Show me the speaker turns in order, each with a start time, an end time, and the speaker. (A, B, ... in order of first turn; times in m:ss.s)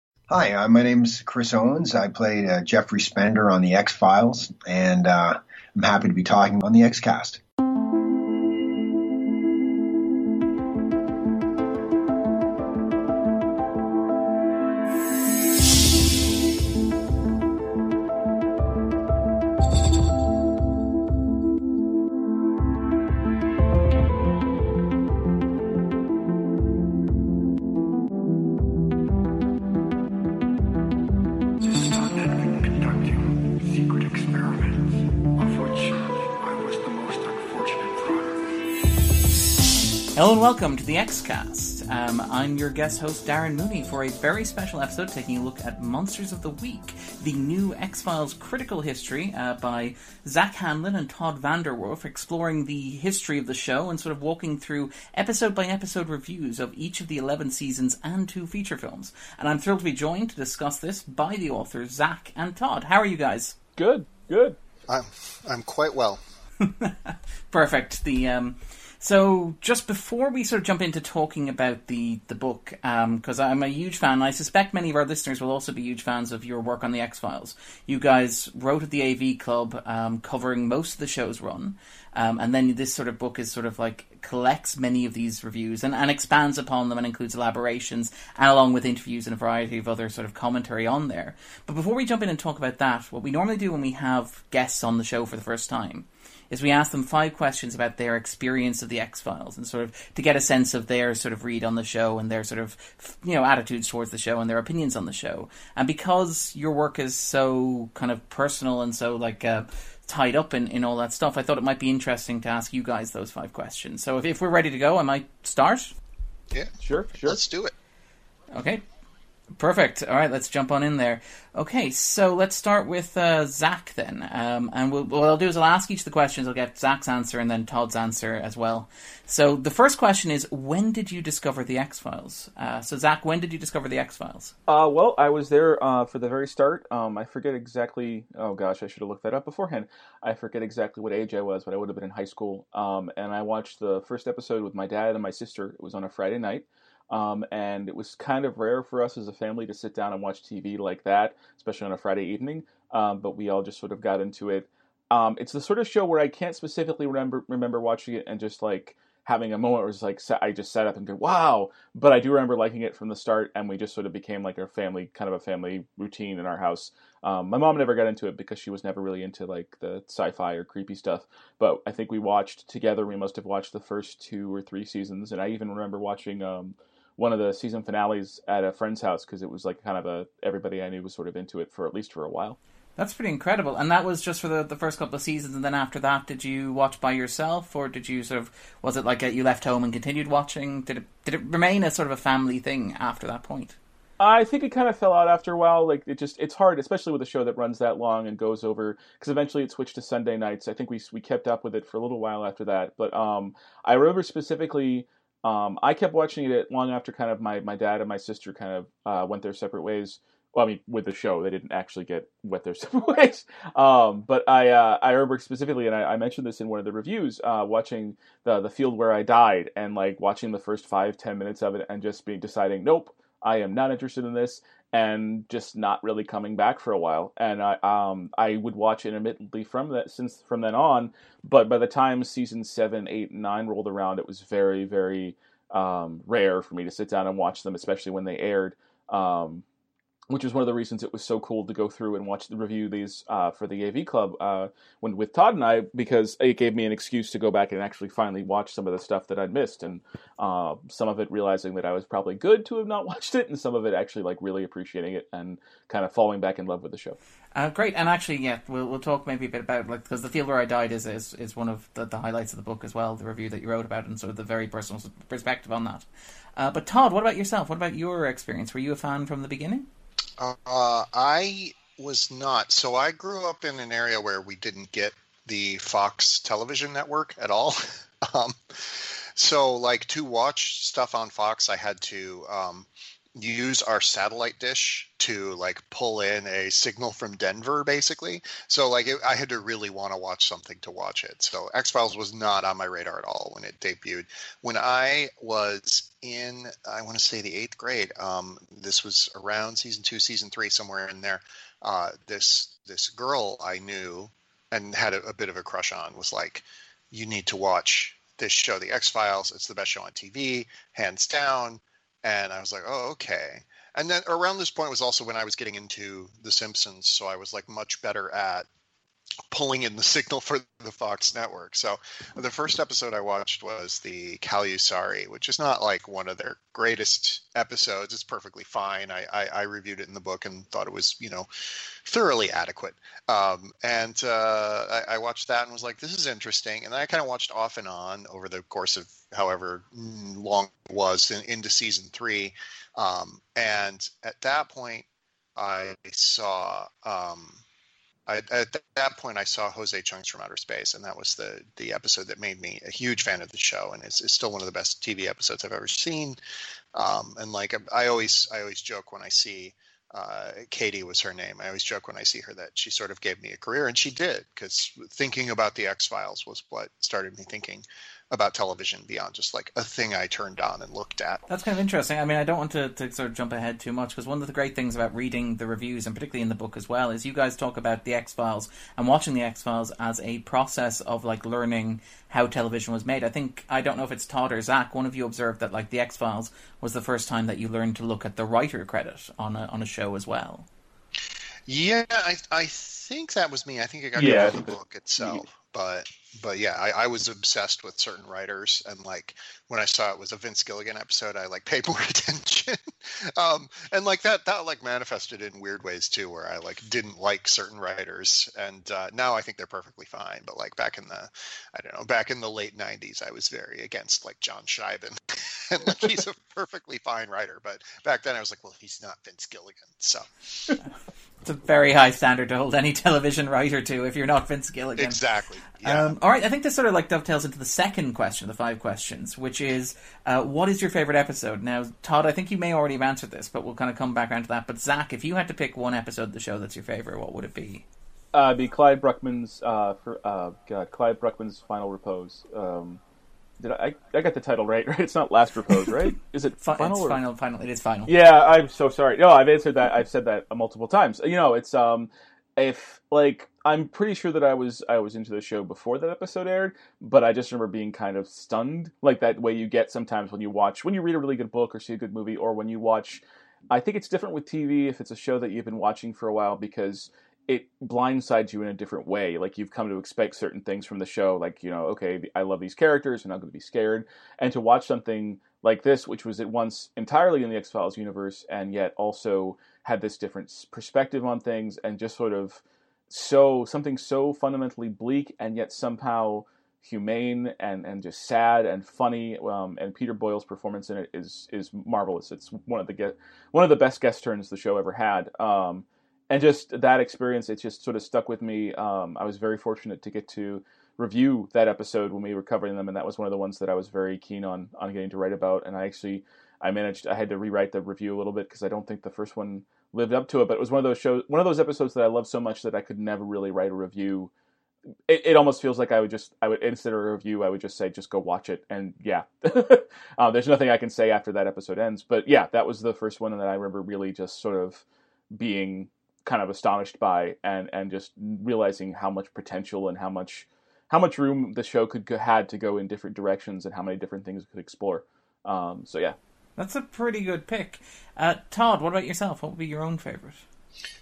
0:00.3-0:07.4 A
0:40.1-1:03.6 B
1:03.8-1:04.6 C
1:04.9-1:06.2 D
1:06.6-1:55.9 B
1:56.5-1:57.7 D
1:56.8-1:57.4 C
1:58.5-1:58.8 B
1:59.6-2:14.5 B
2:14.7-3:02.6 C
3:03.0-3:13.8 B
3:14.2-3:59.6 C
4:00.3-4:17.2 C
4:17.5-4:29.9 B
4:30.4-5:18.7 D
5:19.5-5:31.5 D
5:32.0-5:47.6 D
5:48.3-5:56.4 D
5:56.9-6:11.4 D
6:11.5-6:30.7 B
6:31.7-7:00.3 D
6:34.2-6:34.7 C
7:01.4-7:05.2 B
7:05.0-7:06.2 D
7:05.8-7:17.8 B
7:18.3-7:23.0 C
7:23.6-7:27.2 C
7:26.6-7:28.1 B
7:28.1-8:34.3 C
8:35.1-8:56.2 C
8:56.6-9:00.4 B